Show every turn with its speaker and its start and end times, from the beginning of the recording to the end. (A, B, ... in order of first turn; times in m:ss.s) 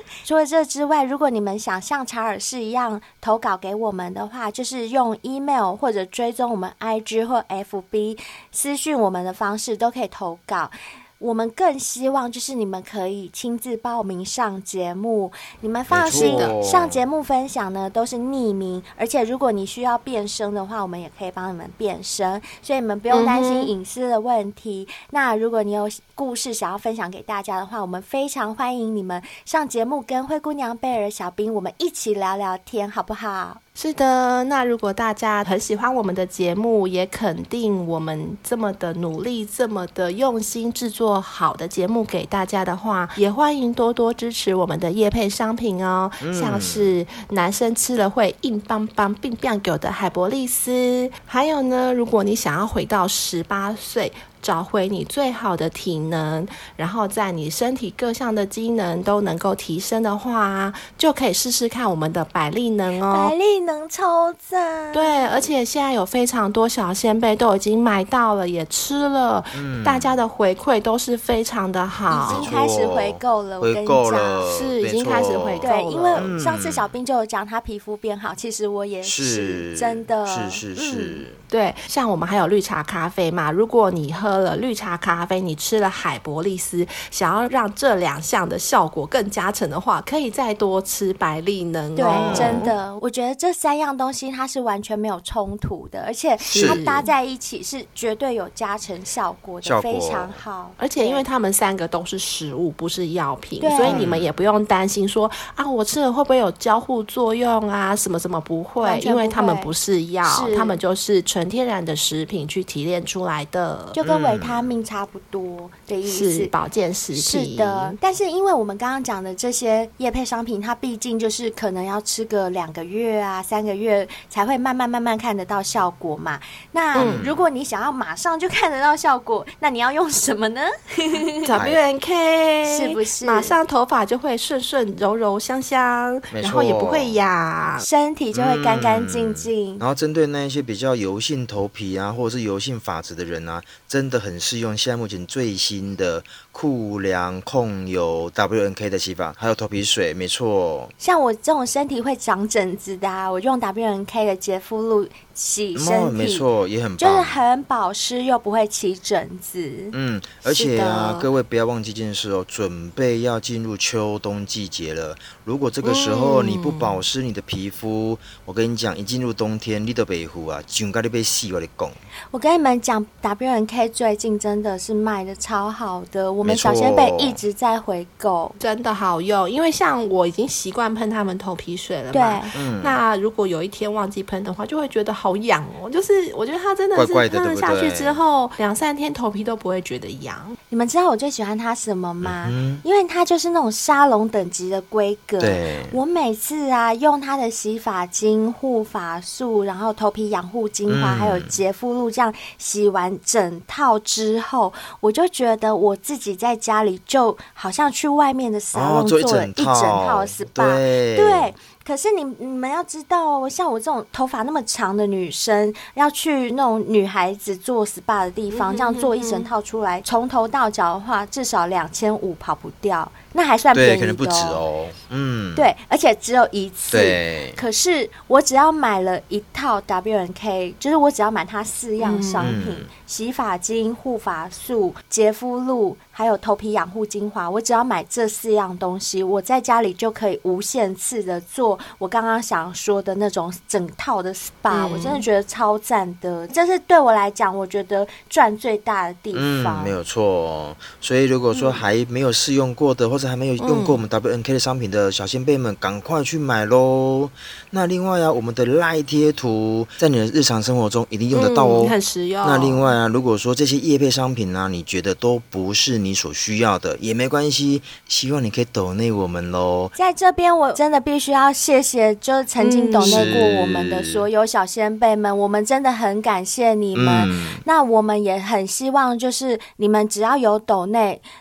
0:00.2-0:33.6 A
0:15.9-0:17.0 B
0:16.1-0:16.6 C
0:23.1-0:23.7 C
0:33.8-1:03.3 C
0:46.2-0:46.9 B
1:03.1-1:05.4 A
1:04.9-1:12.5 C
1:09.5-1:10.2 B
1:12.1-1:14.5 A
1:12.2-1:16.9 B
1:14.4-1:16.3 C
1:15.6-1:20.6 A
1:19.0-1:21.4 B
1:20.8-1:32.7 C
1:32.0-1:41.2 A
1:32.1-1:32.7 B
1:36.4-1:37.1 C
1:36.5-1:36.8 B
1:39.6-1:40.4 B
1:40.8-1:54.0 C
1:43.6-1:44.1 A
1:43.8-1:44.3 B
1:48.8-1:49.7 A
1:50.2-1:50.8 A
1:53.9-1:56.5 A
1:54.0-1:54.7 B
1:56.1-1:58.0 C
1:57.2-2:11.6 A
2:06.9-2:07.3 C
2:07.0-2:07.4 B
2:11.4-2:17.9 C
2:11.6-2:11.8 B
2:12.6-2:13.6 A
2:16.3-2:17.2 B
2:17.8-2:19.8 A
2:18.3-2:30.9 B
2:31.0-2:36.4 A
2:35.8-2:37.4 B
2:37.0-2:40.0 A
2:39.9-2:52.0 B
2:40.5-2:41.3 C
2:45.8-2:47.0 C
2:52.3-2:58.6 A
2:56.4-2:57.4 B
2:58.6-3:10.6 C
3:02.1-3:02.5 A
3:02.6-3:03.0 B
3:07.0-3:08.2 B
3:10.7-3:44.6 A
3:12.2-3:12.8 B
3:15.4-3:16.0 B
3:20.9-3:21.6 B
3:28.7-3:31.5 B
3:38.5-3:39.5 C
3:43.7-3:45.7 B
3:45.6-4:10.0 A
3:46.9-3:47.6 B
3:52.0-3:52.5 C
3:52.4-3:52.9 B
4:04.7-4:05.2 C
4:09.3-4:29.9 B
4:13.6-4:14.0 C
4:21.3-4:22.9 C
4:30.0-4:41.2 A
4:32.6-4:33.4 C
4:33.0-4:34.2 B
4:37.0-4:37.6 B